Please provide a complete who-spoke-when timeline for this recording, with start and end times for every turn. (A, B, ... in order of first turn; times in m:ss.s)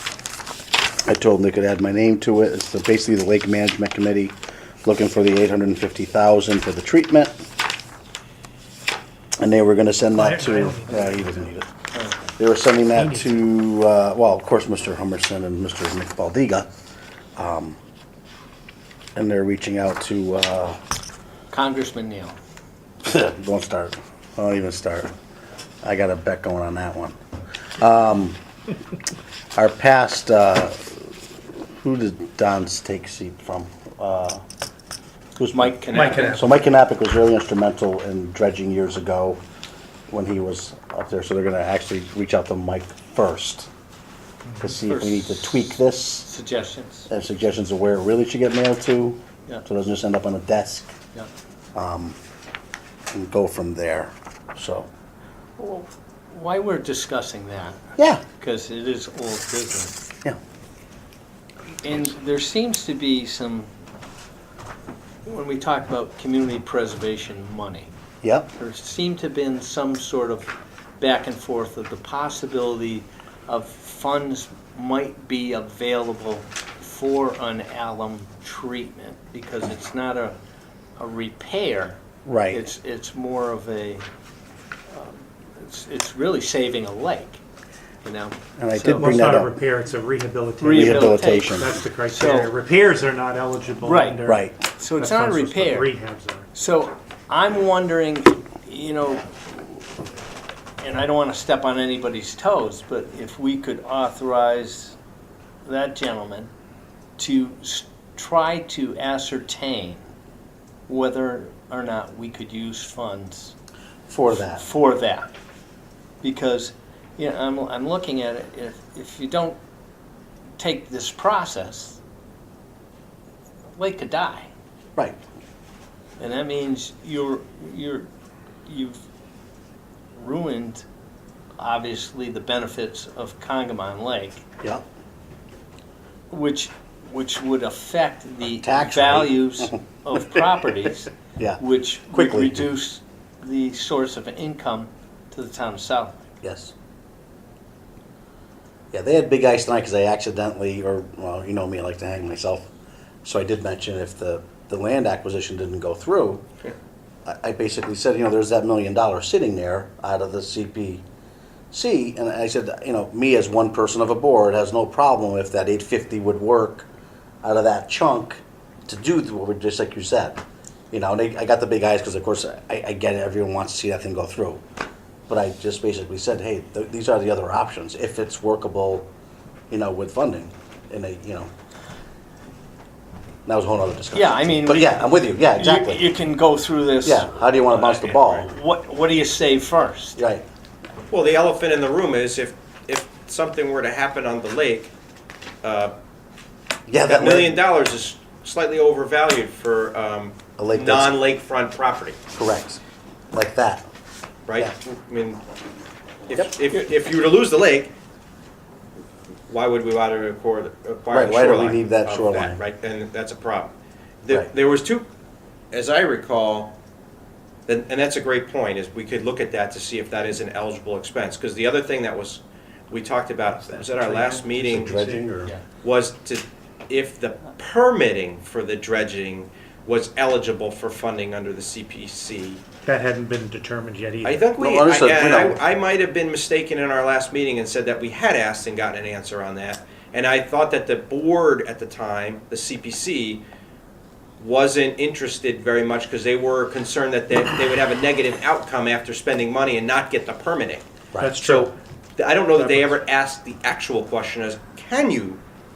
0:01.1-0:07.3 A
0:09.4-0:11.7 A
0:10.2-0:11.6 B
0:12.4-0:16.7 A
0:13.0-0:13.3 B
0:17.4-0:17.8 A
0:19.2-0:20.8 A
0:21.5-0:22.3 C
0:23.1-0:25.1 A
0:25.8-0:27.2 A
0:27.8-0:28.4 A
0:29.6-0:31.1 A
0:31.7-0:34.4 A
0:35.4-0:39.4 A
0:35.5-0:36.5 C
0:35.9-0:36.5 B
0:40.1-0:43.7 A
0:44.4-0:44.7 B
0:44.6-0:46.3 A
0:44.8-0:47.1 C
0:47.1-0:50.9 A
0:51.8-0:52.2 A
0:53.1-0:54.9 A
0:55.6-0:57.8 C
0:58.0-0:58.2 A
0:58.4-0:59.9 C
1:01.8-1:03.7 C
1:05.2-1:07.9 C
1:08.2-1:08.5 A
1:08.6-1:20.4 C
1:21.0-1:22.0 C
1:22.2-1:22.6 A
1:22.5-1:24.0 C
1:24.9-1:27.4 C
1:28.0-1:29.1 C
1:28.6-1:29.6 A
1:28.9-1:34.4 B
1:30.6-1:32.5 C
1:30.7-1:31.8 A
1:33.8-1:34.2 C
1:34.3-1:34.5 A
1:34.8-1:35.9 C
1:35.0-1:36.5 B
1:36.5-1:39.8 C
1:40.8-1:45.0 C
1:45.6-1:46.5 C
1:47.2-1:50.0 C
1:50.9-1:53.6 C
1:54.1-1:54.6 A
1:54.3-1:55.3 C
1:56.2-1:59.6 C
2:00.6-2:02.0 C
2:03.8-2:04.5 C
2:06.2-2:08.1 C
2:08.7-2:09.0 C
2:10.2-2:10.8 C
2:11.6-2:14.4 C
2:16.3-2:26.2 C
2:18.6-2:19.8 A
2:21.4-2:22.7 A
2:26.4-2:26.7 A
2:28.9-2:32.7 A
2:33.2-2:36.4 A
2:37.2-2:41.0 A
2:41.7-2:46.9 A
2:47.4-2:54.6 A
2:55.3-2:59.1 A
2:59.7-3:01.5 A
3:03.5-3:06.0 A
3:04.1-3:10.2 C
3:07.0-3:08.5 A
3:10.2-3:10.4 A
3:11.1-3:14.9 D
3:15.6-3:15.9 D
3:16.9-3:17.6 A
3:17.0-3:22.2 D
3:20.6-3:21.2 A
3:22.4-3:22.8 A
3:23.3-3:23.8 A
3:24.5-3:25.4 D
3:26.3-3:27.9 D
3:29.5-3:33.7 D
3:31.1-3:32.6 A
3:34.2-3:35.1 D
3:35.7-3:36.7 D
3:37.7-3:45.0 D
3:43.5-3:45.3 B
3:44.6-3:45.5 A
3:45.8-3:52.6 D
3:52.8-3:54.4 B
3:54.2-4:03.4 D
3:54.6-3:55.6 A
4:04.4-4:10.8 D
4:11.2-4:11.7 B
4:11.4-4:15.4 D
4:12.6-4:13.0 B